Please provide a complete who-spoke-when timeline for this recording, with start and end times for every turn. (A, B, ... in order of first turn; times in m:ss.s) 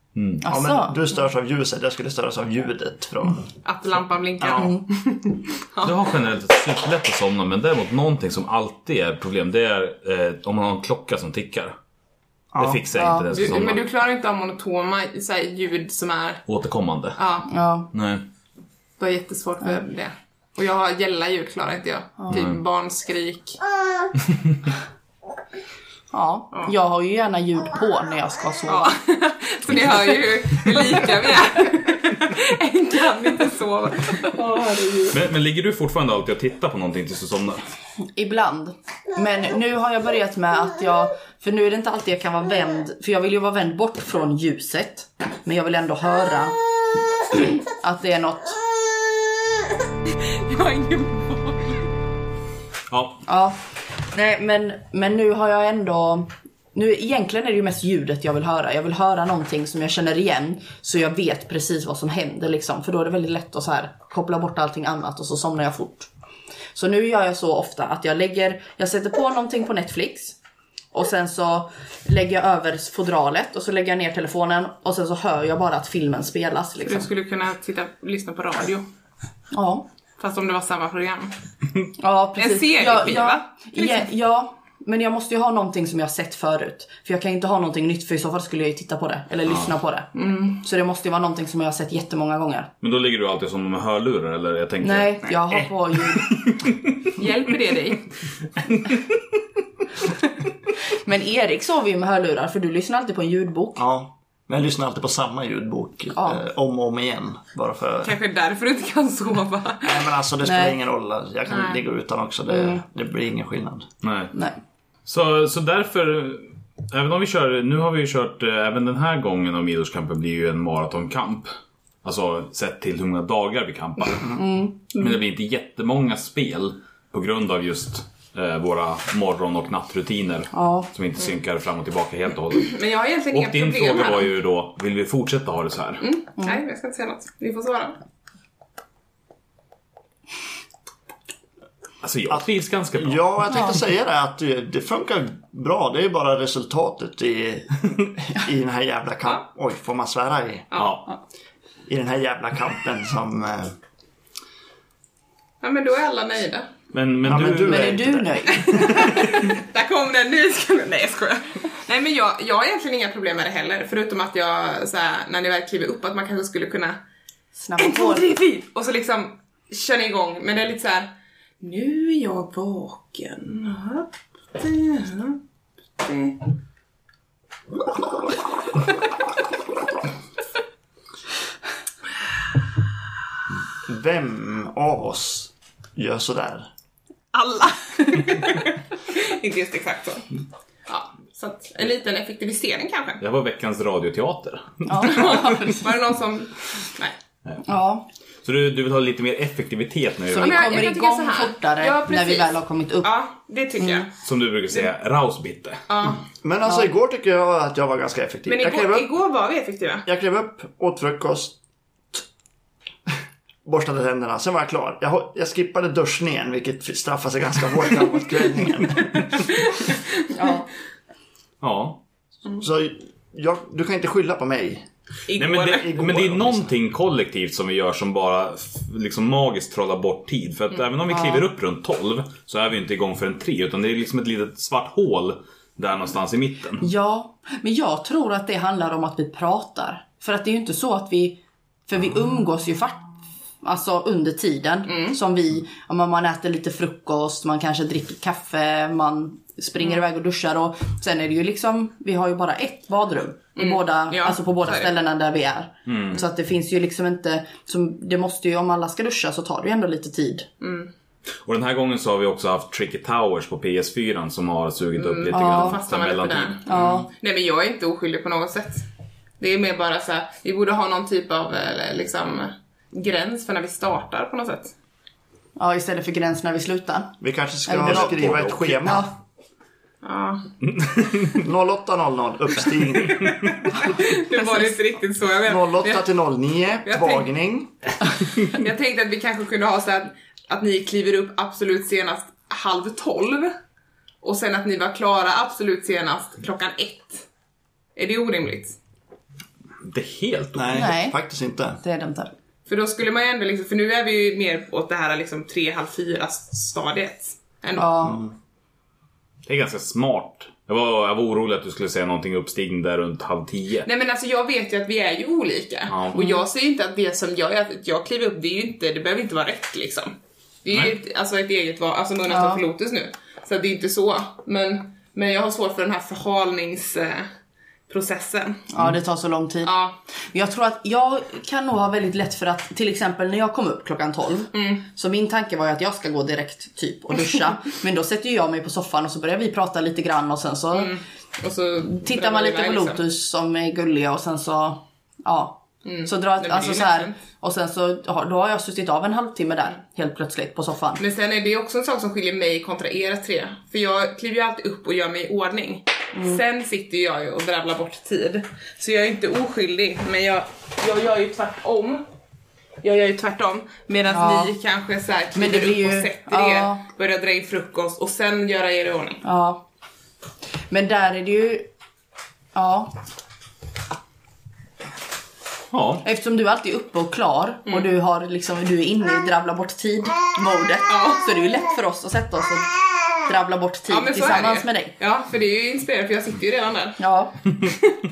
0:00.2-0:00.5 A
0:00.4-0:01.0 B
0:00.5-0:03.5 C
0:03.6-0:05.9 D
0:04.4-0:04.7 C
0:04.6-0:04.8 B
0:05.8-0:11.8 A
0:12.5-0:12.8 C
0:12.6-0:13.9 A
0:13.0-0:13.3 B
0:13.3-0:16.4 D
0:16.5-0:17.2 A
0:17.2-0:17.5 D
0:17.5-0:17.9 B
0:17.9-0:18.2 A
0:19.0-0:23.6 D
0:22.3-0:22.6 A
0:26.1-0:29.0 B
0:28.7-0:35.2 D
0:35.1-0:37.6 A
0:38.2-0:46.6 B
0:47.3-0:48.6 B
0:50.2-0:51.8 D
0:52.9-0:53.2 A
0:53.2-1:06.1 B
1:06.8-1:10.4 B
1:10.9-1:17.1 B
1:16.9-1:18.9 D
1:19.5-1:19.8 B
1:20.2-1:21.3 D
1:22.0-1:32.7 B
1:22.4-1:24.1 D
1:29.5-1:29.7 A
1:30.2-1:30.6 D
1:32.8-1:35.6 A
1:34.8-1:36.4 B
1:36.5-1:36.9 A
1:37.2-1:38.1 D
1:41.0-1:43.8 B
1:43.8-1:48.2 C
1:48.0-1:50.1 D
1:49.8-1:53.9 C
1:50.4-1:50.8 B
1:51.5-1:51.8 D
1:52.5-1:52.8 B
1:54.0-1:54.3 A
1:55.1-2:01.5 A
2:02.0-2:12.8 A
2:04.3-2:05.1 B
2:10.5-2:10.9 B
2:12.6-2:14.3 D
2:13.3-2:16.0 A
2:16.0-2:18.0 D
2:22.0-2:23.2 A
2:22.3-2:30.7 C
2:23.5-2:23.8 B
2:30.7-2:31.1 D
2:30.8-2:31.1 A
2:31.9-2:33.8 C
2:35.6-2:36.7 D
2:36.9-2:38.1 A
2:37.2-2:39.2 C
2:37.5-2:39.4 B
2:38.5-2:47.0 D
2:47.6-2:48.3 B
2:47.8-2:55.4 D
2:56.0-2:56.4 D
3:03.9-3:06.7 C
3:07.3-3:10.3 D
3:10.9-3:13.2 D
3:13.2-3:15.5 A
3:14.8-3:15.9 B
3:15.0-3:17.2 D
3:17.7-3:18.1 B
3:18.4-3:20.8 A
3:20.3-3:23.1 B
3:20.4-3:24.1 D
3:23.8-3:24.1 B
3:24.2-3:25.8 A
3:25.9-3:26.2 D
3:26.4-3:29.1 C
3:26.7-3:26.9 B
3:28.5-3:30.1 D
3:30.1-3:31.6 C
3:33.6-3:39.3 C
3:39.6-3:40.5 D
3:40.3-3:40.7 B
3:41.6-3:42.0 A
3:42.6-3:44.9 C
3:45.3-3:45.9 D
3:45.3-3:56.9 A
3:45.7-3:46.7 C
3:51.1-3:51.4 B
3:56.8-4:03.1 B
4:03.6-4:20.5 B
4:04.9-4:05.2 D
4:13.6-4:14.9 D
4:15.9-4:16.2 A
4:20.6-4:20.9 D
4:21.4-4:26.6 A
4:25.0-4:28.9 D
4:25.3-4:25.8 B
4:26.7-4:27.1 B
4:29.4-4:34.7 D
4:35.6-4:38.1 B
4:37.2-4:39.1 C
4:37.8-4:39.0 A
4:38.8-4:39.1 B
4:40.0-4:40.4 D
4:40.7-4:41.3 A
4:41.3-4:43.3 C
4:43.2-4:46.1 D
4:43.8-4:44.8 B
4:45.4-4:47.7 C
4:46.8-4:47.3 D
4:48.4-4:53.6 D
4:54.2-4:57.3 D
4:58.0-4:58.8 D
4:59.8-5:00.9 A
5:00.6-5:01.8 C
5:00.7-5:01.2 B
5:01.8-5:02.3 B
5:02.7-5:08.0 D
5:07.8-5:08.2 B
5:08.0-5:08.3 C
5:09.5-5:13.9 A
5:13.8-5:27.3 D
5:15.9-5:16.3 A
5:22.3-5:22.6 B
5:27.9-5:28.7 D
5:28.7-5:29.8 B
5:29.6-5:30.0 D
5:30.3-5:41.0 B
5:34.5-5:34.8 D
5:40.7-5:43.0 D
5:41.9-5:51.0 B
5:45.8-5:47.2 D
5:51.0-6:02.0 D
5:56.2-5:56.4 B
6:02.8-6:09.2 D
6:04.1-6:04.5 B
6:05.4-6:06.8 B
6:09.2-6:09.6 B
6:10.7-6:11.7 B
6:12.5-6:12.9 B
6:15.7-6:16.1 A
6:16.0-6:24.9 B
6:20.9-6:21.3 D
6:23.9-6:27.9 D
6:27.0-6:27.4 B